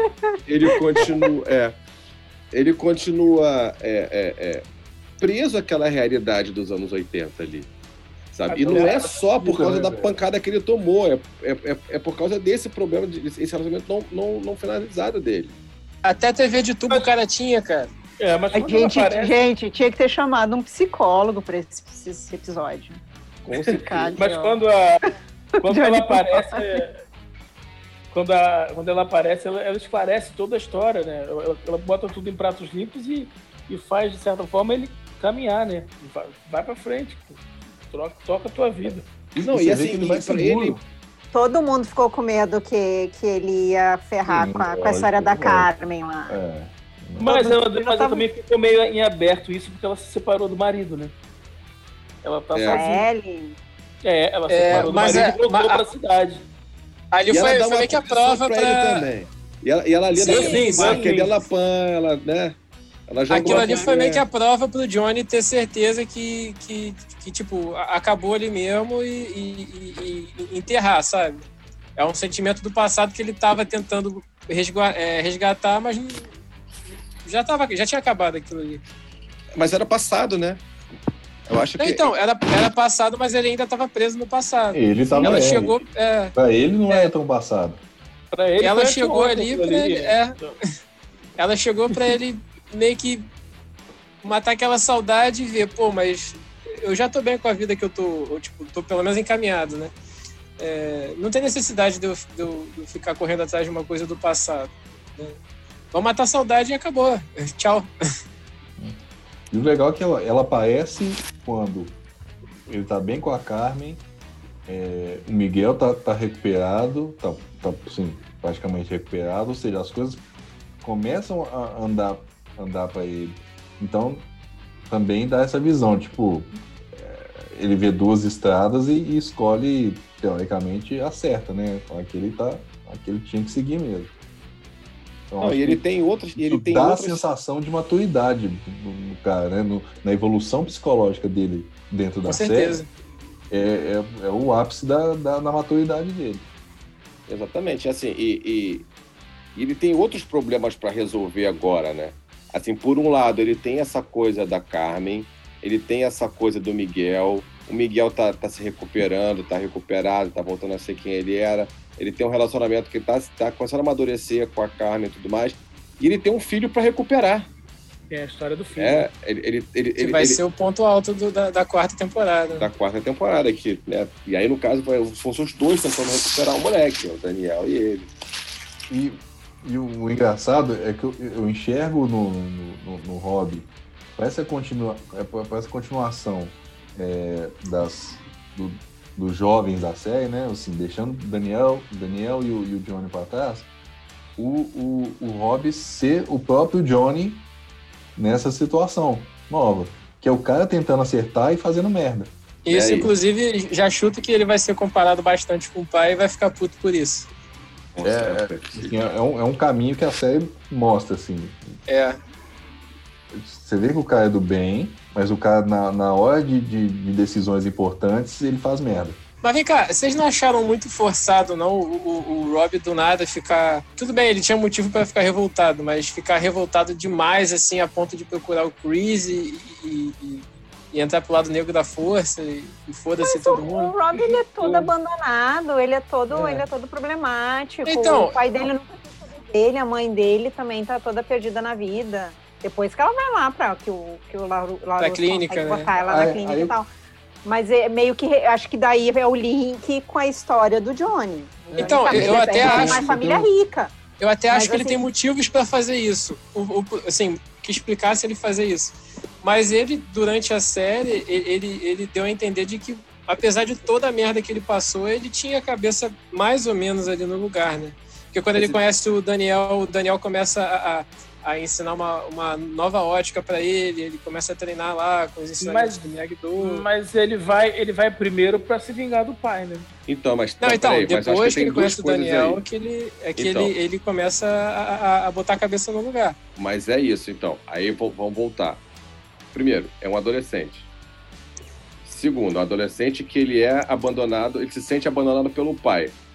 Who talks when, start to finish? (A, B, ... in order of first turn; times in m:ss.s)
0:00.4-0:01.8 A
0:02.5-0:04.6 A
0:05.2-0:07.7 A
0:08.3-0:15.6 A
0:08.5-0:09.2 B
0:08.7-0:10.2 C
0:16.0-0:17.9 D
0:18.2-0:19.4 B
0:18.5-0:23.0 E
0:23.4-0:24.5 A
0:23.5-0:24.5 E
0:24.2-0:25.1 B
0:25.6-0:26.8 E
0:25.6-0:26.9 B
0:28.1-0:39.1 B
0:39.4-0:40.8 C
0:39.4-0:40.8 A
0:41.3-0:46.4 E
0:44.2-0:45.7 C
0:46.3-0:47.3 C
0:47.2-0:51.1 B
0:47.2-0:48.3 E
0:52.2-0:53.0 B
0:52.5-0:52.8 A
0:52.6-0:53.6 E
0:54.0-0:56.4 B
0:54.5-0:55.8 D
0:54.7-0:55.3 A
0:57.1-0:59.1 D
0:57.3-1:02.6 A
1:00.1-1:01.0 D
1:00.2-1:01.4 B
1:03.1-1:04.2 A
1:03.3-1:11.4 D
1:03.6-1:03.9 B
1:12.0-1:16.3 D
1:17.2-1:18.8 D
1:19.6-1:20.6 A
1:21.5-1:22.1 A
1:21.8-1:26.3 D
1:24.7-1:25.8 C
1:25.2-1:25.5 B
1:26.3-1:27.8 C
1:28.3-1:30.5 B
1:28.6-1:30.4 D
1:31.4-1:33.2 D
1:34.2-1:39.9 D
1:40.6-1:45.4 D
1:45.9-1:47.9 D
1:49.5-1:52.0 C
1:52.7-1:54.0 C
1:54.7-2:00.2 C
2:00.8-2:04.2 C
2:04.9-2:14.1 C
2:15.3-2:22.8 C
2:15.4-2:17.2 A
2:22.2-2:22.9 D
2:23.5-2:26.4 C
2:27.3-2:28.9 A
2:29.5-2:47.5 A
2:48.1-2:49.1 B
2:48.8-2:50.4 A
2:50.0-2:52.7 D
2:52.6-2:58.1 A
2:58.9-3:13.7 C
3:14.4-3:17.5 C
3:18.2-3:22.3 C
3:22.6-3:27.3 D
3:22.7-3:23.1 A
3:27.9-3:29.0 A
3:28.0-3:31.7 C
3:31.9-3:32.2 D
3:33.3-3:39.2 C
3:39.4-3:54.0 D
3:53.2-4:06.9 E
3:54.1-3:54.8 B
3:56.3-3:56.6 D
3:57.8-3:58.4 D
4:05.0-4:05.9 D
4:06.0-4:06.7 C
4:07.4-4:13.9 E
4:11.7-4:13.5 C
4:11.8-4:13.1 D
4:14.2-4:36.8 D
4:14.5-4:15.0 E
4:35.6-4:36.0 B
4:36.6-4:39.9 B
4:40.1-4:42.6 A
4:40.6-4:46.4 D
4:43.4-4:43.7 A
4:46.6-4:48.8 A
4:49.5-4:50.9 A
4:52.0-4:56.1 A